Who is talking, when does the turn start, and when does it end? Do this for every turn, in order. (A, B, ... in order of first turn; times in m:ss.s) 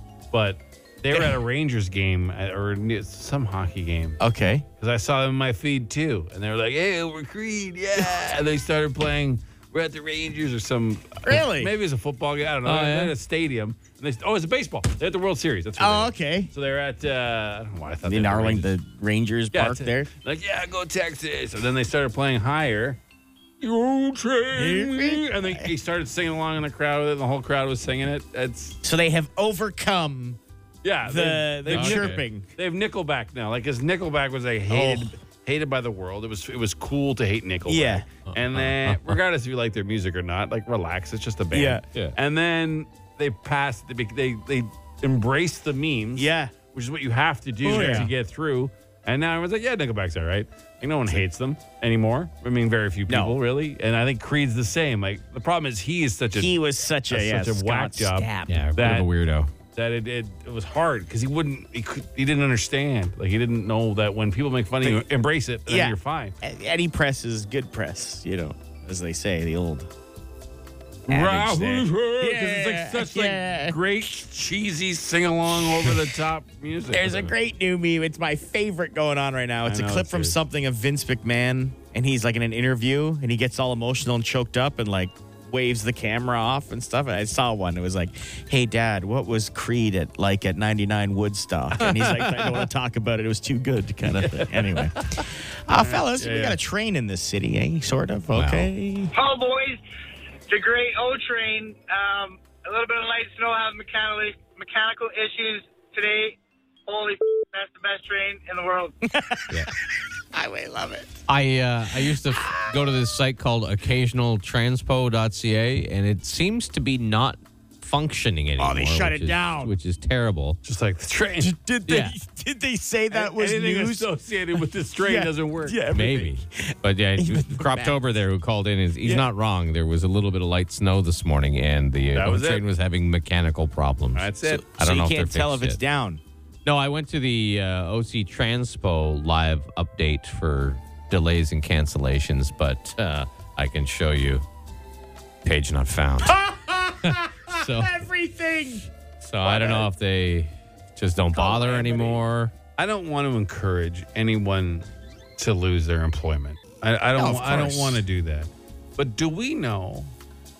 0:00.3-0:04.2 A
0:04.2-0:04.7 B
0:04.8-0:18.7 A
0:11.2-0:11.7 B
0:12.7-0:13.1 C
0:15.8-0:16.5 B
0:18.0-0:20.1 B
0:19.5-0:23.0 A
0:23.6-0:28.8 A
0:24.5-0:25.7 B
0:28.8-0:30.4 B
0:30.8-0:56.6 A
0:31.0-0:32.5 B
0:31.7-0:32.2 C
0:34.7-0:35.1 B
0:37.7-0:38.1 B
0:38.3-0:39.2 C
0:41.5-0:41.8 B
0:46.2-0:46.6 B
0:47.6-0:48.1 B
0:53.1-0:53.4 B
0:56.4-0:58.6 B
0:57.1-0:59.1 A
0:58.5-0:59.5 C
0:59.7-1:06.4 A
1:05.7-1:09.9 B
1:11.1-1:13.8 B
1:11.1-1:17.3 A
1:16.9-1:39.1 B
1:19.6-1:20.4 A
1:34.3-1:34.8 A
1:35.7-1:36.6 A
1:38.3-1:38.7 C
1:39.1-1:39.8 D
1:40.5-1:49.0 D
1:49.0-1:49.7 B
1:50.3-1:51.2 B
1:51.3-2:00.6 C
1:52.0-1:52.6 B
1:58.6-1:59.7 B
2:00.6-2:01.5 A
2:01.4-2:04.1 B
2:01.9-2:02.2 C
2:03.1-2:05.8 A
2:05.0-2:08.0 B
2:05.9-2:15.8 C
2:12.1-2:12.6 A
2:14.2-2:14.6 A
2:14.4-2:16.2 B
2:16.6-2:24.4 C
2:25.4-2:26.4 C
2:26.3-2:28.9 B
2:27.0-2:28.0 C
2:29.2-2:32.5 C
2:29.5-2:29.8 A
2:31.4-2:32.2 A
2:32.8-2:34.9 A
2:35.4-2:40.1 A
2:37.2-2:38.0 B